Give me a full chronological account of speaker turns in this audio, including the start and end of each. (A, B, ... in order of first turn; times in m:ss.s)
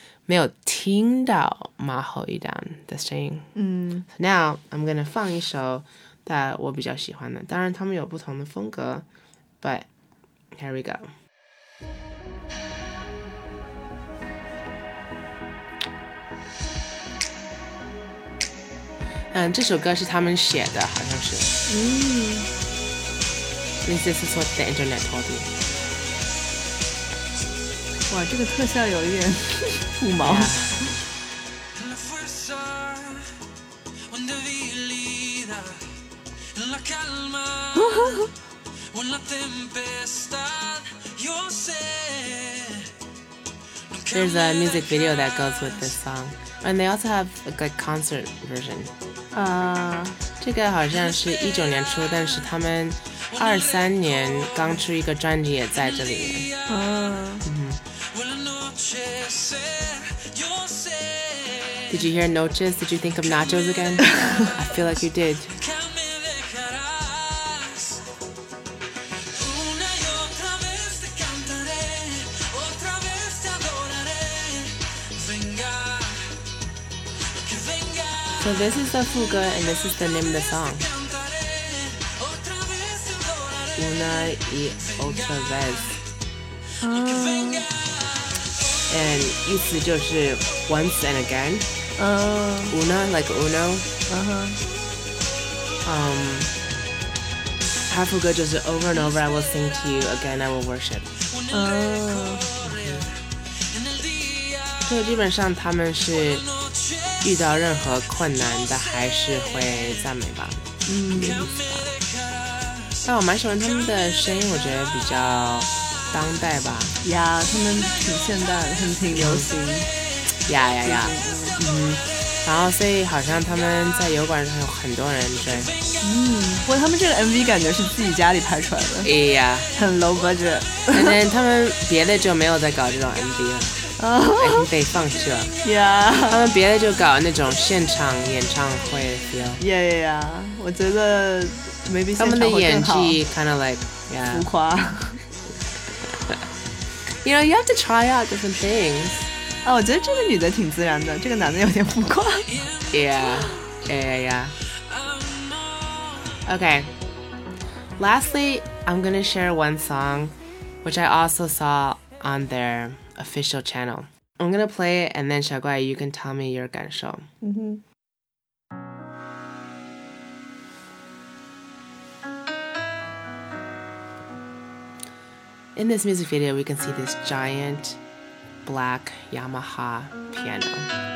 0:00.3-0:03.5 A
0:03.6-0:04.1 B
0:04.1-0:09.1 A
0:09.6-0:09.9 A
0:10.5-0:11.1 A
0:19.3-0:21.5 A
0:21.7-0:22.5 B
0:23.8-0:25.5 A
0:28.1-0:30.6 B
0:30.2-0:30.9 A
0:34.4-0:35.2 C
0:37.7-0:38.3 B
0:39.2-0:42.6 C
0:44.1-0:48.9 A
0:49.3-0:50.2 B
0:50.4-0:56.5 A
0:56.7-0:57.5 B
0:57.4-0:57.8 A
0:58.6-1:01.1 C
1:01.9-1:05.6 A
1:06.2-1:07.5 C
1:09.4-1:16.1 C
1:18.4-1:20.9 A
1:22.0-1:23.6 C
1:23.8-1:26.0 A
1:26.8-1:27.7 B
1:28.9-1:31.7 A
1:32.0-1:32.8 B
1:32.7-1:33.9 A
1:34.1-1:34.6 B
1:35.8-1:36.5 A
1:37.9-1:41.1 A
1:41.5-1:42.5 B
1:42.6-1:43.1 A
1:44.8-1:46.5 A
1:47.2-1:52.0 A
1:50.9-1:51.5 B
1:53.0-1:57.0 A
1:57.0-1:59.9 B
1:59.1-1:59.5 A
2:00.5-2:05.7 A
2:00.8-2:01.6 B
2:06.0-2:09.1 B
2:09.0-2:09.7 A
2:09.8-2:11.2 B
2:10.9-2:13.8 A
2:14.0-2:14.7 B
2:14.3-2:15.5 A
2:15.6-2:16.4 B
2:16.3-2:19.6 A
2:19.6-2:23.2 B
2:22.2-2:24.5 A
2:24.3-2:25.2 B
2:27.2-2:29.3 A
2:29.6-2:32.5 B
2:32.9-2:34.6 A
2:36.4-2:36.9 A
2:38.0-2:47.2 A
2:47.4-2:47.8 B
2:55.8-2:58.0 A
2:58.6-3:00.9 A